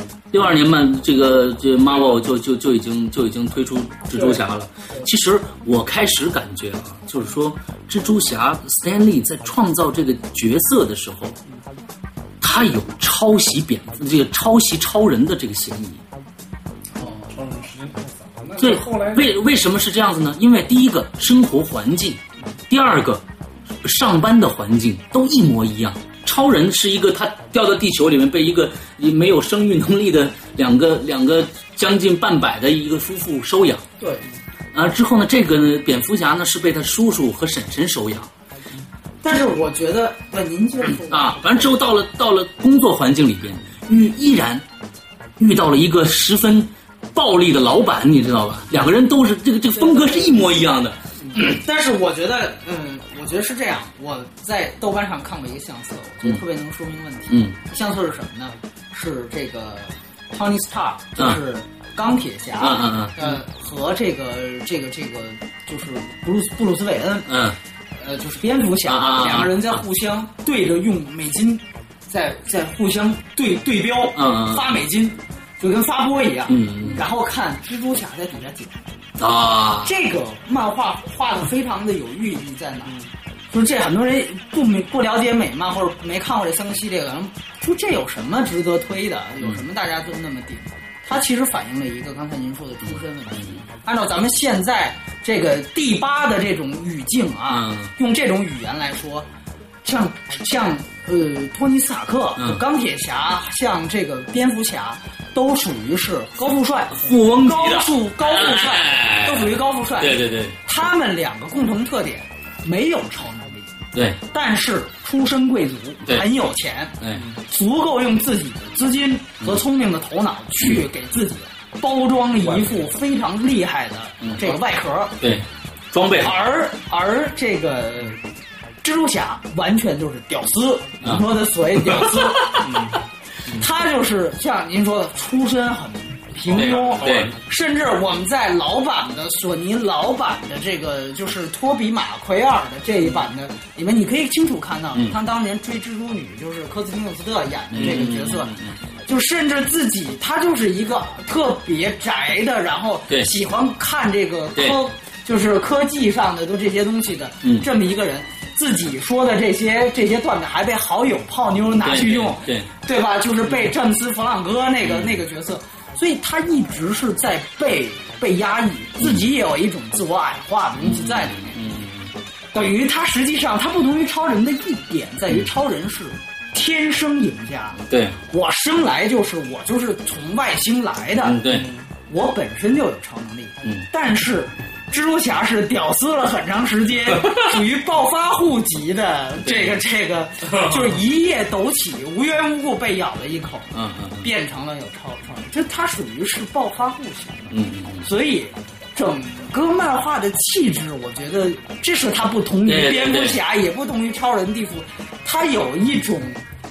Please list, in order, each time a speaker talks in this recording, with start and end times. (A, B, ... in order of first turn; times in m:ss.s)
0:00.3-0:11.4 A
0:12.4-0:16.0 A
0:17.0-0:19.3 B
0:18.6-0:23.2 A
0:23.8-0:33.8 A
0:34.0-0:34.2 C
0:34.7-0:38.3 A
0:39.2-0:41.7 C
0:41.1-0:44.6 A
0:45.4-0:51.6 A
0:49.8-0:50.5 C
0:51.3-1:07.3 C
0:57.3-0:57.6 A
1:02.6-1:03.4 A
1:07.3-1:07.6 A
1:08.0-1:18.9 C
1:08.8-1:09.8 A
1:14.2-1:14.7 A
1:16.5-1:17.0 A
1:19.2-1:19.9 A
1:19.8-1:22.9 C
1:23.5-1:39.3 C
1:33.3-1:33.6 A
1:37.5-1:37.9 A
1:39.8-1:57.0 C
1:42.4-1:42.6 A
1:46.9-1:50.6 A
1:53.9-1:54.2 A
1:57.0-1:57.2 A
1:57.2-1:57.4 B
1:57.5-2:05.2 C
2:04.2-2:04.6 A
2:05.2-2:06.4 A
2:06.2-2:08.2 C
2:08.8-2:12.7 C
2:11.9-2:12.6 A
2:12.6-2:13.6 B
2:13.6-2:28.5 C
2:16.5-2:17.4 B
2:16.5-2:17.3 A
2:27.7-2:28.8 A
2:29.1-2:51.6 C
2:41.8-2:42.7 A
2:44.8-2:45.2 A
2:49.0-2:49.3 A
2:50.8-2:52.1 A
2:52.5-3:01.4 C
2:57.9-2:58.2 A
3:01.2-3:01.7 A
3:01.5-3:01.9 B
3:02.1-3:13.7 C
3:09.4-3:09.8 A
3:13.7-3:14.3 A
3:14.2-3:26.4 C
3:17.5-3:18.1 A
3:22.7-3:23.4 A